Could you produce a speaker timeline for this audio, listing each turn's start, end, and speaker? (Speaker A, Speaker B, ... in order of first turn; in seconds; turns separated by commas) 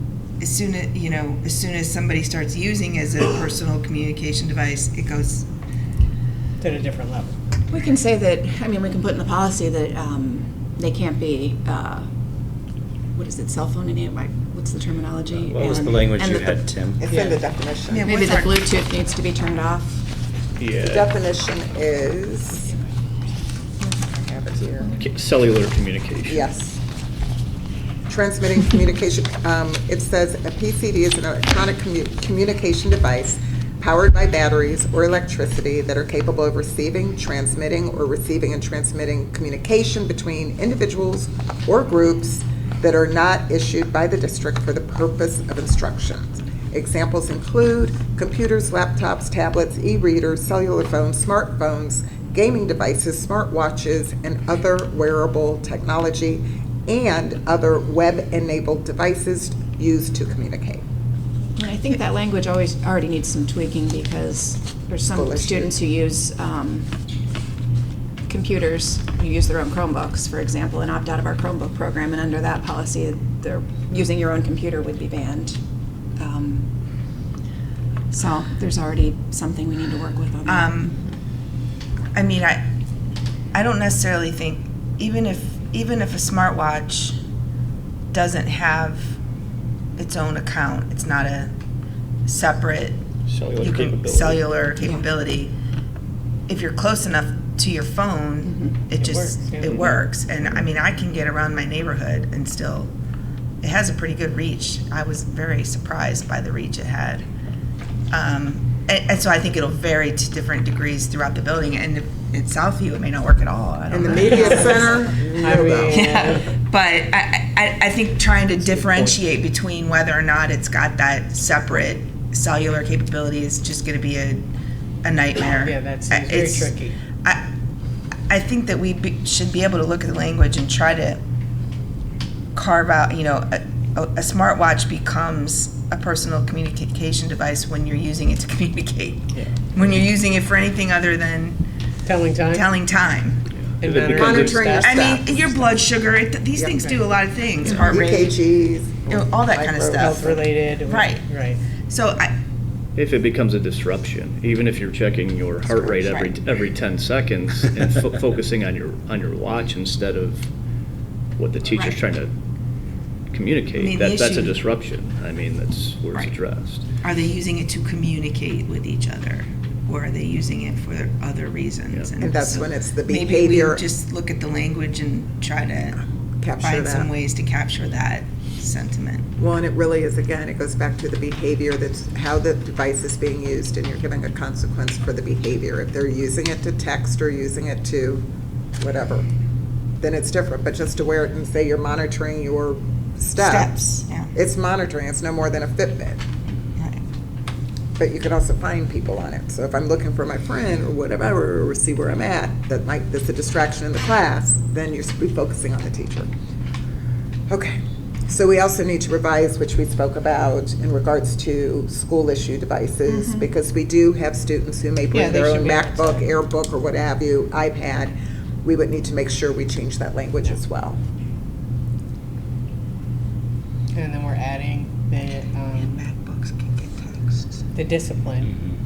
Speaker A: 0.4-5.5, Speaker B: 6.6-7.3, Speaker C: 7.7-12.1, Speaker C: 13.1-16.7, Speaker D: 15.3-17.0, Speaker E: 17.0-18.1, Speaker B: 17.1-17.4, Speaker A: 17.9-18.5, Speaker C: 18.0-20.1, Speaker F: 20.6-21.1, Speaker E: 20.8-22.7, Speaker E: 24.0-25.0, Speaker F: 25.0-26.5, Speaker E: 26.2-26.8, Speaker E: 28.1-60.8, Speaker C: 61.6-66.9, Speaker E: 65.1-65.8, Speaker C: 68.3-75.6, Speaker C: 76.2-76.7, Speaker C: 78.1-81.0, Speaker A: 80.5-80.9, Speaker A: 82.1-82.6, Speaker A: 83.5-87.2, Speaker A: 88.1-89.1, Speaker A: 90.0-91.5, Speaker A: 92.2-93.0, Speaker F: 93.3-94.6, Speaker A: 93.6-95.5, Speaker C: 94.8-95.1, Speaker A: 96.5-102.9, Speaker C: 98.4-98.8, Speaker B: 98.9-100.7, Speaker A: 103.6-107.2, Speaker A: 108.1-114.9, Speaker E: 113.9-116.1, Speaker B: 114.0-116.5, Speaker A: 115.9-124.5, Speaker A: 125.0-127.5, Speaker B: 125.5-127.0, Speaker A: 128.3-131.2, Speaker A: 132.5-141.6, Speaker B: 142.0-142.7, Speaker A: 142.5-143.4, Speaker F: 143.5-144.7, Speaker B: 143.8-145.1, Speaker E: 144.1-145.4, Speaker A: 144.8-148.4, Speaker F: 145.2-145.6, Speaker E: 146.6-146.9, Speaker E: 147.8-150.4, Speaker A: 149.1-150.3, Speaker B: 149.9-151.6, Speaker A: 150.8-151.2, Speaker A: 151.9-152.3, Speaker F: 152.9-160.5, Speaker A: 156.0-156.3, Speaker F: 161.4-162.3, Speaker F: 163.3-166.8, Speaker A: 163.7-164.6, Speaker A: 167.0-176.0, Speaker F: 171.9-172.2, Speaker E: 172.2-173.9, Speaker E: 176.4-177.1, Speaker A: 176.6-179.3, Speaker E: 179.4-188.2, Speaker E: 188.8-189.3, Speaker E: 190.0-193.7, Speaker A: 193.3-194.3, Speaker E: 194.3-196.2, Speaker E: 198.0-206.3, Speaker E: 207.5-207.8, Speaker E: 208.3-221.0, Speaker C: 213.1-213.5, Speaker B: 215.1-216.3, Speaker B: 223.9-226.0, Speaker A: 225.3-227.5, Speaker B: 227.7-228.5, Speaker D: 228.5-228.8